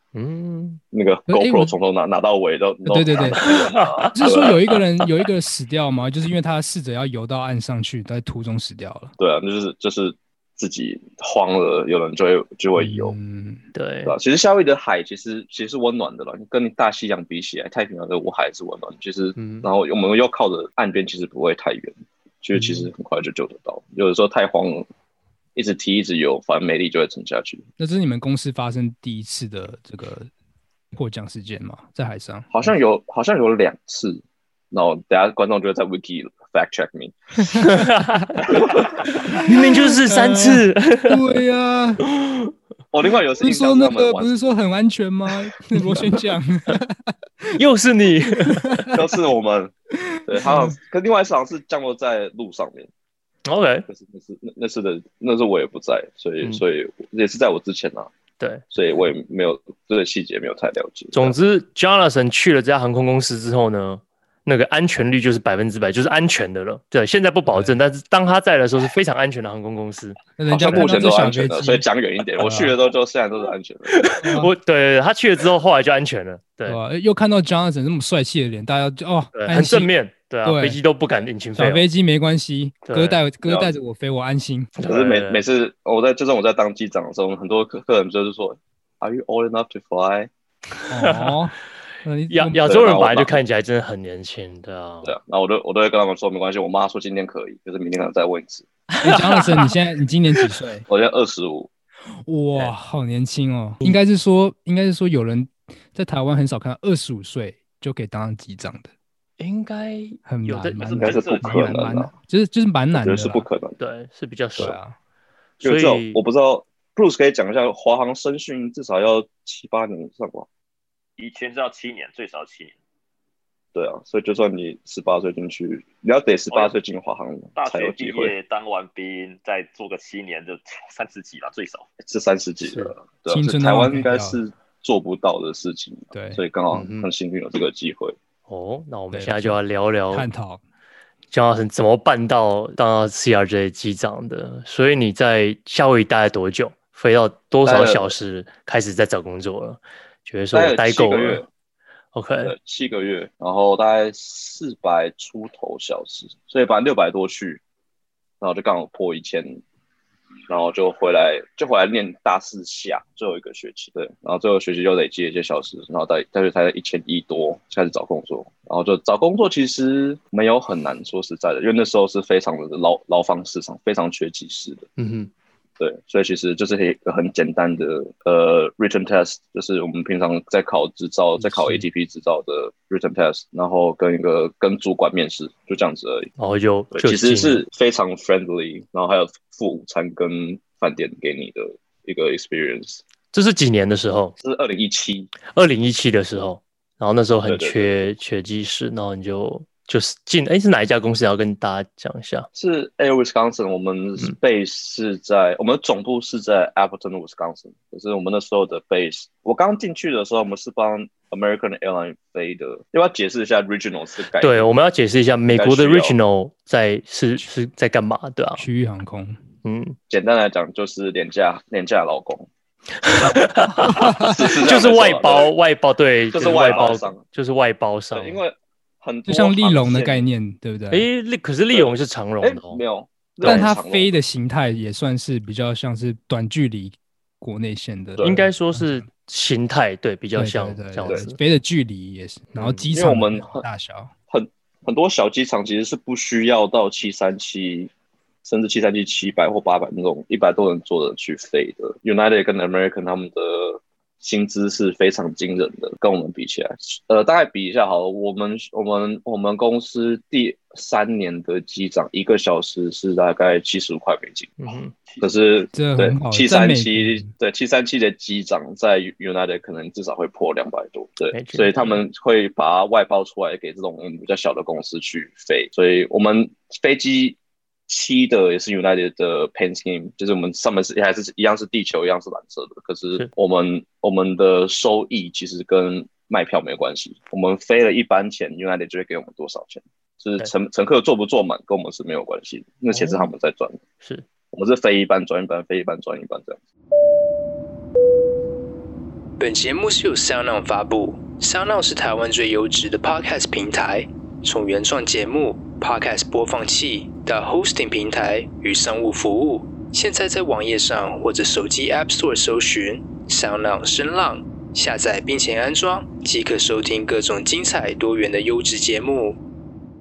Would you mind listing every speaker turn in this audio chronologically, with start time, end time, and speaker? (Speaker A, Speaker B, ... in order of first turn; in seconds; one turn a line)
Speaker A: 0.1-0.8
Speaker B: 0.9-4.6
Speaker C: 1.3-1.7
Speaker C: 2.9-3.4
Speaker A: 3.4-4.1
Speaker C: 4.1-9.1
Speaker B: 9.2-13.2
Speaker C: 12.8-13.6
Speaker A: 13.7-14.2
Speaker B: 14.0-24.9
Speaker A: 19.4-19.7
Speaker A: 22.6-22.9
Speaker B: 25.6-27.6
Speaker C: 27.8-30.3
Speaker C: 30.9-32.7
Speaker B: 32.5-37.1
Speaker A: 37.6-38.4
Speaker B: 38.5-38.9
Speaker C: 39.3-42.0
Speaker A: 39.3-41.2
Speaker A: 42.0-42.5
Speaker B: 42.9-44.5
Speaker C: 43.4-47.5
Speaker A: 47.5-49.0
Speaker C: 48.4-48.9
Speaker B: 48.9-49.7
Speaker C: 50.1-50.7
Speaker B: 50.2-52.9
Speaker A: 53.4-53.9
Speaker B: 53.9-58.1
Speaker B: 58.7-61.3
Speaker A: 61.1-71.1
Speaker C: 67.5-67.7
Speaker C: 70.4-71.8
Speaker B: 70.5-74.1
Speaker C: 72.4-72.7
Speaker A: 73.9-76.8
Speaker C: 74.2-74.5
Speaker C: 76.7-79.9
Speaker A: 79.3-81.8
Speaker C: 80.4-80.8
Speaker C: 81.6-84.7
Speaker A: 82.8-83.2
Speaker B: 83.4-83.7
Speaker A: 84.8-85.4
Speaker B: 84.9-90.3
Speaker C: 90.9-92.7
Speaker A: 91.0-91.4
Speaker A: 92.3-95.1
Speaker B: 92.7-93.4
Speaker B: 95.0-98.7
Speaker A: 98.9-99.7
Speaker C: 99.0-100.8
Speaker B: 100.9-101.7
Speaker C: 102.2-108.9
Speaker A: 109.4-111.2
Speaker C: 110.2-113.5
Speaker D: 110.8-111.8
Speaker B: 111.0-112.1
Speaker B: 112.9-113.8
Speaker A: 113.8-114.8
Speaker C: 114.6-115.0
Speaker B: 115.6-120.5
Speaker A: 115.6-116.2
Speaker D: 121.2-122.7
Speaker B: 123.7-128.3
Speaker D: 127.5-131.8
Speaker B: 132.0-138.1
Speaker A: 132.6-132.9
Speaker C: 133.3-134.4
Speaker C: 136.1-136.4
Speaker A: 136.7-137.1
Speaker A: 138.5-140.3
Speaker C: 139.1-139.6
Speaker C: 140.1-140.6
Speaker A: 141.3-151.4
Speaker B: 147.6-148.1
Speaker B: 150.5-151.5
Speaker A: 152.1-152.5
Speaker B: 152.4-157.6
Speaker B: 158.4-159.6
Speaker B: 160.5-174.9
Speaker A: 175.0-175.3
Speaker B: 175.8-186.3
Speaker A: 181.4-181.8
Speaker A: 186.4-187.6
Speaker B: 186.9-193.0
Speaker A: 193.3-194.3
Speaker B: 194.4-195.3
Speaker A: 195.4-202.5
Speaker B: 197.4-198.1
Speaker B: 202.5-214.7
Speaker A: 214.4-218.6
Speaker B: 215.5-216.1
Speaker C: 218.6-219.4
Speaker A: 219.6-220.0
Speaker B: 220.1-222.5
Speaker A: 223.0-228.4
Speaker B: 223.2-225.5
Speaker C: 223.9-224.3
Speaker B: 226.3-227.2
Speaker B: 228.1-230.2
Speaker C: 229.3-231.1
Speaker A: 230.9-232.8
Speaker B: 231.7-234.1
Speaker A: 233.4-233.7
Speaker C: 233.4-239.1
Speaker B: 238.2-238.4
Speaker A: 238.2-241.4
Speaker C: 240.3-244.1
Speaker A: 242.6-242.8
Speaker B: 242.9-243.6
Speaker B: 244.3-247.9
Speaker B: 248.4-264.6
Speaker A: 264.6-264.9
Speaker B: 265.2-277.4
Speaker C: 265.7-267.3
Speaker A: 271.3-272.0
Speaker B: 277.9-293.8
Speaker A: 292.9-293.3
Speaker B: 294.5-296.6
Speaker E: 299.4-319.4